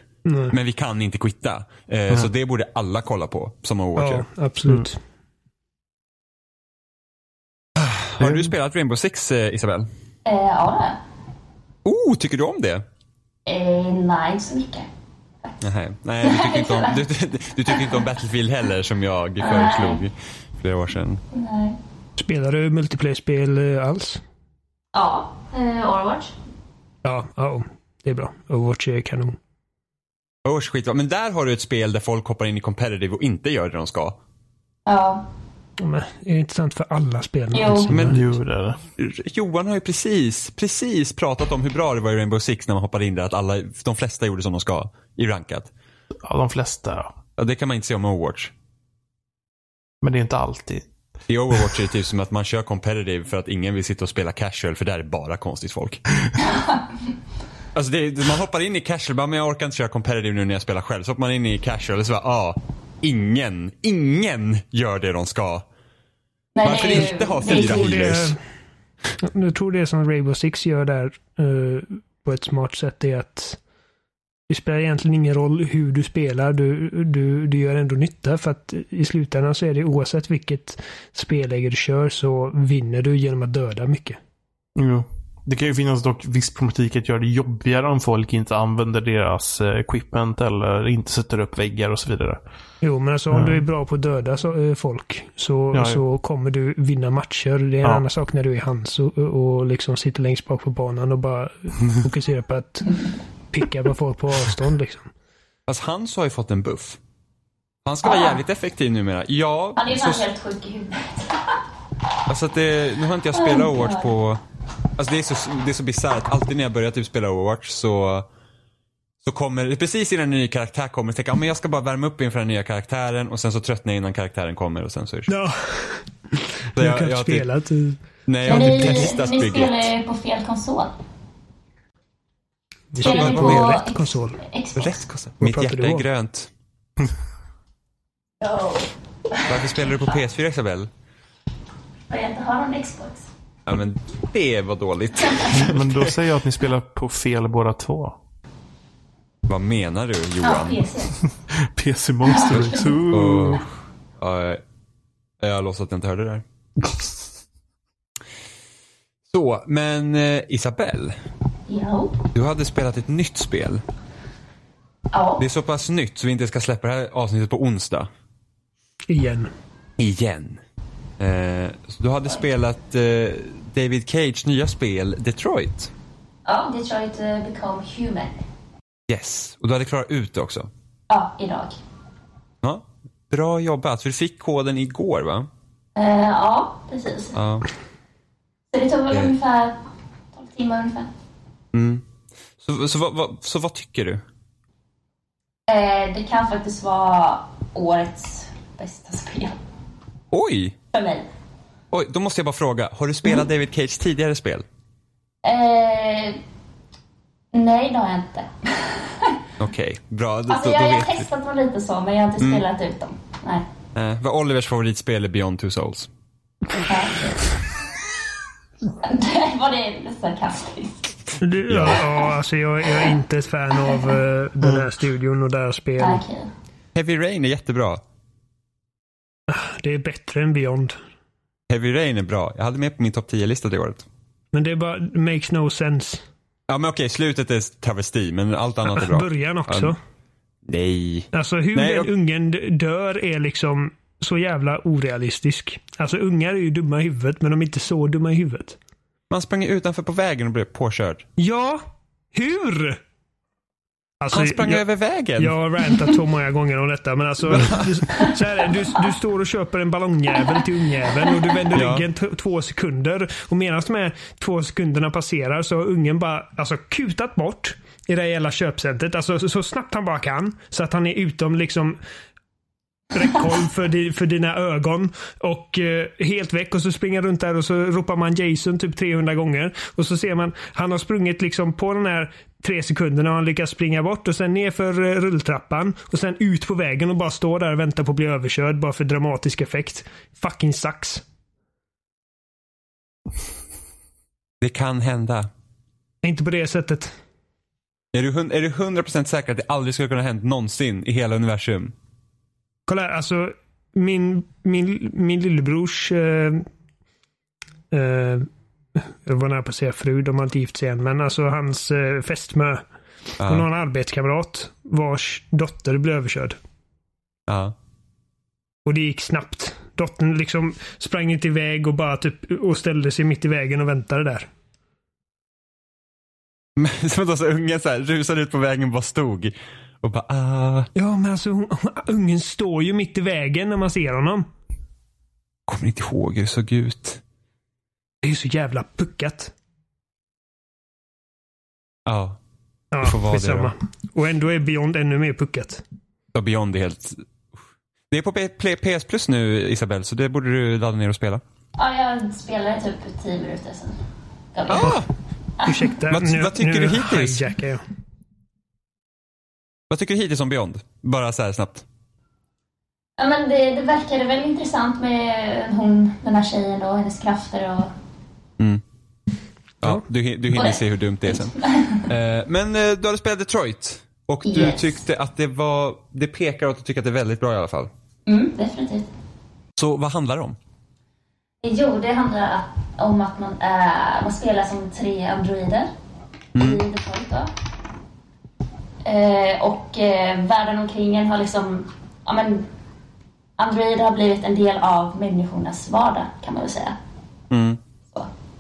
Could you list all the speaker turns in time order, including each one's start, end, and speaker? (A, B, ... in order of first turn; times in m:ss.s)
0:00.3-0:00.5 A
0:00.5-0:04.3 B
0:04.0-0:05.0 A
0:07.8-0:09.9 B
0:08.2-0:08.5 C
0:10.2-0:11.0 D
0:11.8-0:12.8 B
0:13.5-0:14.9 D
0:15.6-0:21.2 B
0:16.2-0:17.0 D
0:19.4-0:20.0 D
0:21.3-0:21.8 D
0:22.2-0:24.2 A
0:24.9-0:26.3 D
0:27.0-0:29.4 A
0:30.4-0:34.2 B
0:34.9-0:35.2 D
0:35.8-0:38.3 A
0:37.5-0:37.9 D
0:37.9-0:38.2 B
0:38.1-0:38.8 C
0:39.0-0:45.7 B
0:46.2-0:47.1 C
0:47.4-0:48.5 B
0:50.0-0:50.9 C
0:51.3-0:56.0 B
0:56.5-0:56.8 D
0:57.7-1:05.6 B
1:06.6-1:08.1 D
1:06.6-1:08.4 B
1:06.9-1:08.4 A
1:09.2-1:13.6 A
1:14.5-1:24.2 A
1:24.8-1:32.4 C
1:32.8-1:45.1 A
1:33.3-1:33.6 C
1:35.7-1:36.0 C
1:45.7-1:47.0 B
1:47.8-1:50.2 B
1:48.0-1:48.4 D
1:49.8-1:51.6 D
1:52.3-1:54.4 B
1:53.3-1:54.1 D
1:55.0-1:58.3 B
1:59.2-2:05.3 B
2:05.3-2:09.1 A
2:06.8-2:07.5 B
2:08.3-2:09.9 B
2:08.5-2:10.9 D
2:12.9-2:14.4 A
2:13.0-2:13.8 B
2:13.0-2:15.0 D
2:14.8-2:16.5 B
2:15.4-2:16.1 A
2:18.4-2:19.7 D
2:19.5-2:20.9 B
2:22.1-2:23.2 D
2:23.7-2:26.2 B
2:25.5-2:28.2 C
2:29.5-2:30.8 B
2:30.4-2:31.2 D
2:31.5-2:33.6 C
2:32.2-2:32.9 D
2:32.5-2:33.7 B
2:34.2-2:34.6 B
2:35.4-2:36.4 B
2:39.3-2:41.2 B
2:41.7-2:42.2 D
2:42.3-2:43.8 B
2:45.1-2:45.4 D
2:45.4-2:48.1 B
2:49.1-2:49.5 A
2:50.0-2:50.6 B
2:51.2-2:55.9 B
2:56.5-2:58.4 D
2:59.1-3:00.7 B
3:01.1-3:01.8 D
3:02.6-3:05.5 B
3:06.0-3:07.4 D
3:07.3-3:07.7 B
3:08.7-3:09.8 D
3:10.3-3:11.1 D
3:11.7-3:12.0 B
3:12.6-3:14.2 B
3:15.7-3:19.6 D
3:20.3-3:20.8 B
3:20.9-3:21.3 D
3:21.9-3:24.6 B
3:25.4-3:26.4 D
3:27.5-3:29.4 D
3:29.6-3:31.3 B
3:30.5-3:33.6 D
3:34.0-3:36.1 B
3:36.9-3:37.5 D
3:39.0-3:41.1 D
3:41.4-3:46.2 A
3:41.7-3:42.0 B
3:46.0-3:46.5 D
3:47.0-3:48.0 B
3:49.5-3:51.0 A
3:51.7-3:54.1 B
3:54.5-3:56.2 A
3:56.7-3:59.9 B
3:58.9-4:00.0 A
4:00.7-4:02.1 B
4:01.3-4:08.8 A
4:09.3-4:11.3 B
4:11.4-4:11.8 A
4:12.3-4:13.0 A
4:14.2-4:14.8 A
4:14.3-4:15.5 B
4:15.4-4:32.0 A
4:17.5-4:18.3 B
4:21.7-4:22.0 B
4:33.1-4:51.2 A
4:54.6-4:55.5 B
4:56.2-4:57.1 A
4:58.1-5:01.9 B
5:02.9-5:06.7 A
5:07.9-5:12.8 A
5:13.4-5:13.7 B
5:13.4-5:16.6 A
5:17.5-5:17.8 B
5:18.9-5:24.5 A
5:26.8-5:30.9 B
5:31.0-5:34.5 A
5:35.7-5:37.2 B
5:38.2-5:39.5 A
5:42.1-5:42.4 B
5:42.9-5:45.8 A
5:43.0-5:43.7 B
5:46.3-5:47.2 B
5:48.1-5:51.4 B
5:51.8-5:54.0 D
5:54.5-5:55.0 D
5:54.7-5:55.1 B
5:55.6-5:57.8 A
5:56.1-5:57.4 B
5:59.9-6:01.8 B
6:03.2-6:07.9 D
6:09.8-6:17.9 B
6:10.5-6:12.1 D
6:14.5-6:15.0 D
6:18.3-6:19.1 D
6:19.8-6:20.6 B
6:21.6-6:25.9 D
6:26.6-6:26.8 B
6:26.6-6:27.5 D
6:29.0-6:32.7 D
6:33.6-6:36.9 D
6:37.5-6:37.8 B